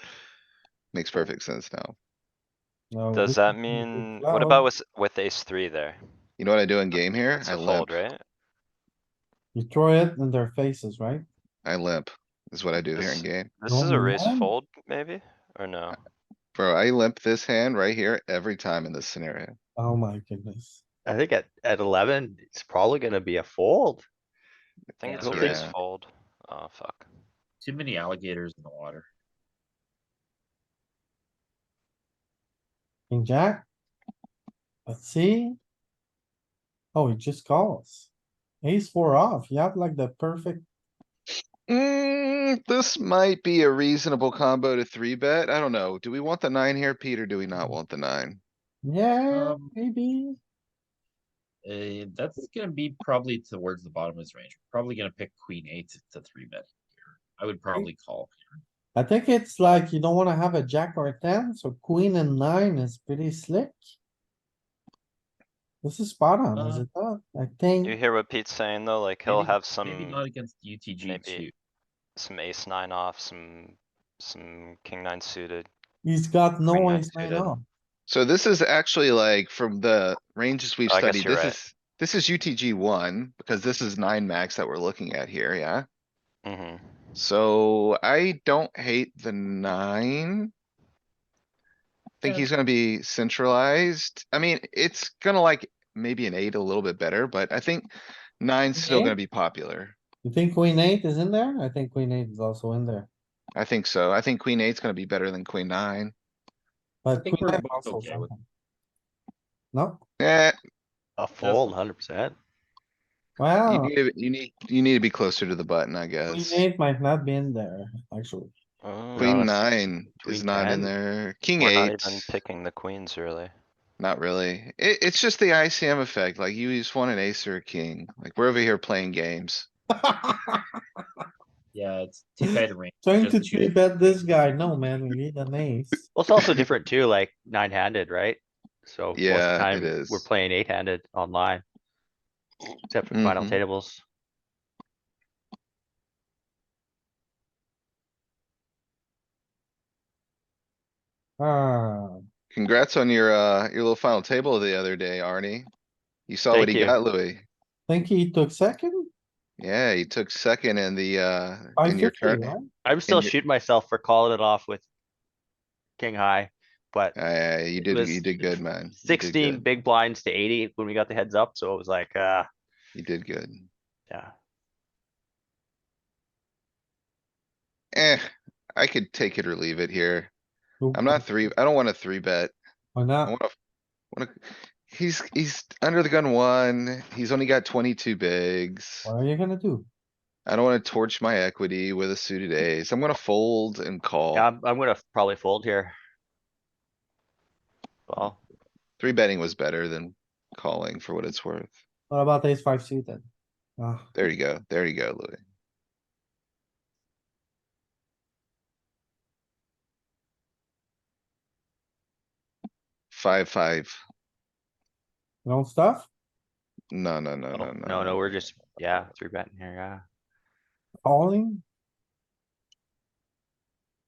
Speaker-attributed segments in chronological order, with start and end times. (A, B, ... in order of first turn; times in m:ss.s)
0:00.9-0:02.0 A
0:02.9-0:04.7 B
0:03.1-0:06.0 C
0:06.4-0:08.0 A
0:06.9-0:08.2 C
0:09.6-0:11.3 B
0:11.6-0:13.5 A
0:12.9-0:16.0 C
0:13.7-0:14.5 B
0:16.6-0:19.6 A
0:19.8-0:20.8 B
0:21.1-0:24.1 D
0:25.0-0:25.8 A
0:25.0-0:27.1 C
0:25.2-0:25.6 D
0:27.6-0:29.1 E
0:33.1-0:33.7 B
0:34.9-0:35.6 B
0:36.9-0:38.1 B
0:38.6-0:40.6 B
0:41.7-0:48.4 A
0:48.8-0:50.4 B
0:49.3-0:49.8 E
0:51.6-0:58.6 E
0:59.0-1:03.9 B
1:05.8-1:08.0 B
1:06.6-1:06.9 E
1:07.8-1:10.2 C
1:09.3-1:11.5 E
1:11.0-1:11.5 C
1:12.2-1:15.7 C
1:16.0-1:17.6 B
1:16.7-1:17.6 C
1:18.1-1:25.9 A
1:20.9-1:21.6 C
1:26.4-1:26.8 C
1:27.2-1:30.5 A
1:32.2-1:37.9 A
1:38.4-1:40.0 A
1:38.8-1:39.2 B
1:40.2-1:43.1 B
1:43.6-1:46.1 A
1:47.0-1:48.4 B
1:47.1-1:48.3 E
1:49.7-1:50.0 B
1:50.2-1:50.6 A
1:51.2-1:52.4 D
1:51.4-1:51.8 E
1:53.4-1:53.9 B
1:53.6-1:56.6 A
1:56.3-1:58.5 B
1:58.8-1:59.5 C
1:59.2-2:02.3 A
1:59.2-2:00.9 D
2:01.6-2:03.5 C
2:04.0-2:09.7 A
2:10.0-2:11.0 B
2:11.7-2:13.8 E
2:12.4-2:16.0 B
2:16.1-2:21.6 D
2:19.2-2:20.3 A
2:22.9-2:24.0 D
2:23.1-2:23.6 A
2:31.4-2:32.2 B
2:32.5-2:35.7 A
2:36.3-2:37.5 A
2:36.5-2:37.0 D
2:37.9-2:39.1 B
2:39.6-2:42.6 A
2:41.8-2:42.7 B
2:42.8-2:44.8 D
2:43.1-2:43.3 A
2:46.0-2:47.2 D
2:47.2-2:49.6 A
2:47.8-2:52.5 D
2:53.0-2:53.7 A
2:57.9-3:00.3 A
3:00.8-3:01.5 B
3:00.9-3:02.6 A
3:03.0-3:03.4 B
3:03.2-3:03.5 A
3:04.1-3:09.1 A
3:09.0-3:09.9 B
3:10.5-3:14.5 A
3:14.3-3:16.0 D
3:18.1-3:18.4 D
3:19.0-3:21.7 A
3:22.1-3:23.2 B
3:23.8-3:24.1 B
3:24.2-3:25.4 A
3:33.1-3:34.0 A
3:35.4-3:36.1 B
3:36.9-3:38.4 A
3:37.5-3:40.0 D
3:41.0-3:41.6 B